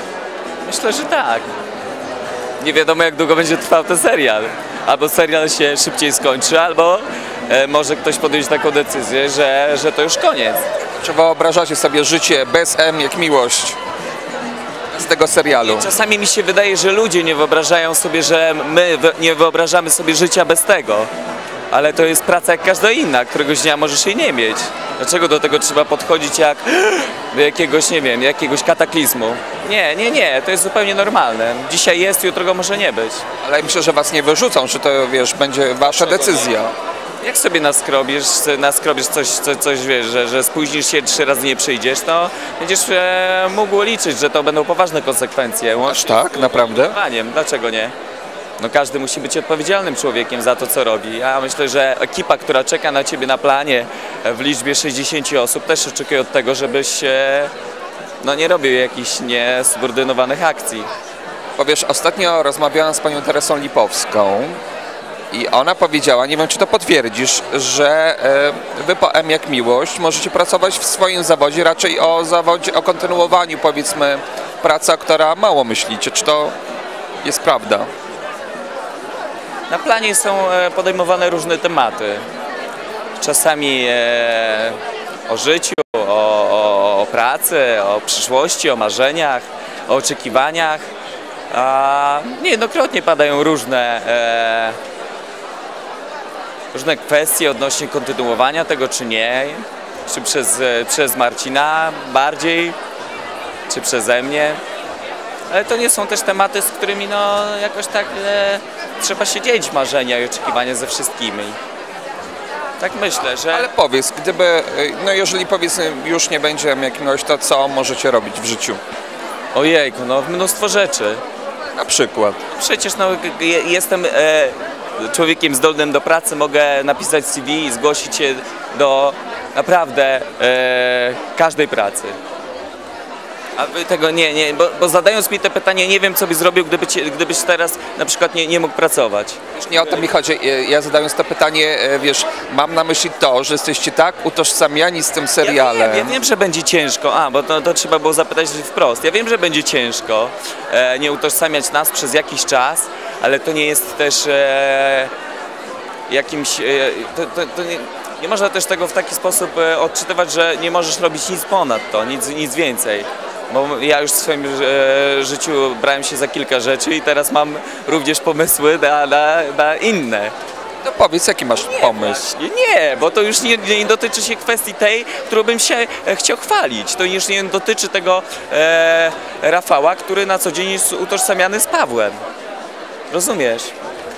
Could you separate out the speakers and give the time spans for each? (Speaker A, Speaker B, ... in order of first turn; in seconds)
Speaker A: 0.6-1.5, 2.6-10.7, 15.6-21.1, 21.7-33.2, 35.9-36.5, 37.2-47.9, 48.6-57.5, 58.2-60.9, 79.7-82.2, 83.2-90.8, 91.5-94.8, 96.7-102.8, 103.7-104.6, 105.5-111.6, 112.8-113.7, 119.5-121.2, 122.5-132.2, 133.6-139.4, 145.4-155.1, 156.1-170.3, 171.6-182.2, 183.1-183.7
Speaker B: 10.9-13.8, 14.9-15.9, 33.4-36.7, 45.8-47.0, 61.6-64.6, 65.3-76.5, 77.2-77.9, 113.5-118.8, 121.8-122.4, 139.6-146.2, 170.8-172.2